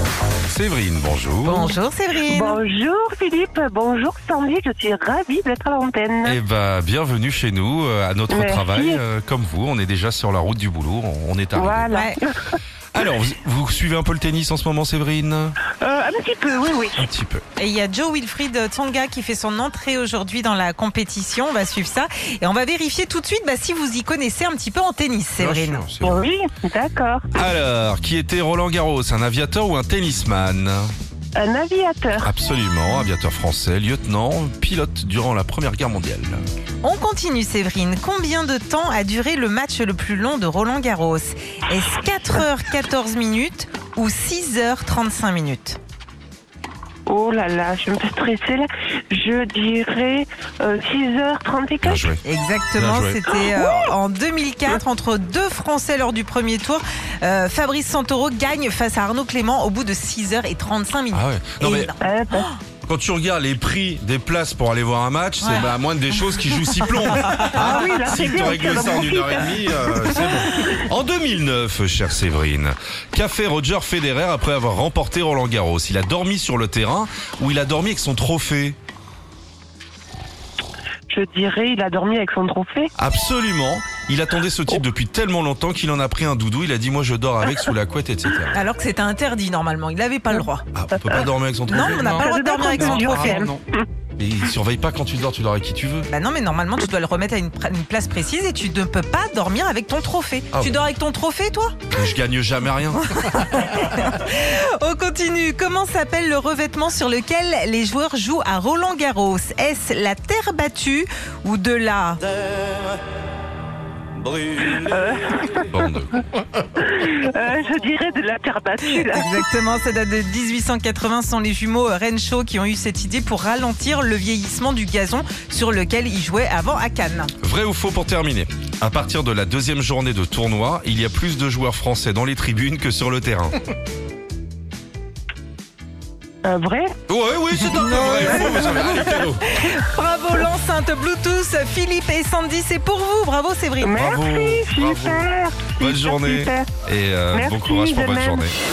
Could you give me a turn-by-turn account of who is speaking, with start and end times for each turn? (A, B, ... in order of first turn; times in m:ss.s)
0:00.5-0:01.8 A
0:01.4-0:02.6 B
0:02.2-0:06.4 C
0:06.2-0:11.9 A
0:08.3-0:09.0 C
0:11.6-0:12.6 C
0:11.9-0:12.2 B
0:12.9-0:15.6 A
0:15.8-0:17.1 C
0:17.0-0:17.4 A
0:17.6-0:25.8 B
0:25.4-0:26.3 A
0:26.0-0:27.3 C
0:27.4-0:30.9 A
0:31.4-0:32.3 C
0:32.2-0:36.4 A
0:36.8-0:45.8 B
0:47.1-0:52.1 C
0:51.8-0:52.2 A
0:52.2-1:02.6 B
0:52.8-0:53.3 A
1:01.1-1:01.9 A
1:02.0-1:02.5 C
1:02.8-1:18.8 A
1:05.4-1:07.5 B
1:07.4-1:10.7 C
1:21.1-1:22.9 C
1:23.0-1:28.6 A
1:28.5-1:30.7 B
1:30.7-1:32.2 A
1:31.7-1:33.5 B
1:31.7-1:33.8 C
1:32.9-1:33.4 A
1:34.2-1:36.1 A
1:36.1-1:41.8 B
1:40.5-1:40.8 A
1:41.9-1:43.4 A
1:43.1-1:52.2 B
1:54.6-1:55.7 C
1:55.7-1:56.2 A
1:56.8-1:59.3 C
1:58.8-2:07.3 B
2:07.4-2:13.6 A
2:16.4-2:16.9 C
2:17.1-2:19.4 A
2:17.7-2:24.0 B
2:23.8-2:26.7 C
2:23.9-2:25.3 A
2:25.8-2:28.5 A
2:27.3-2:28.5 C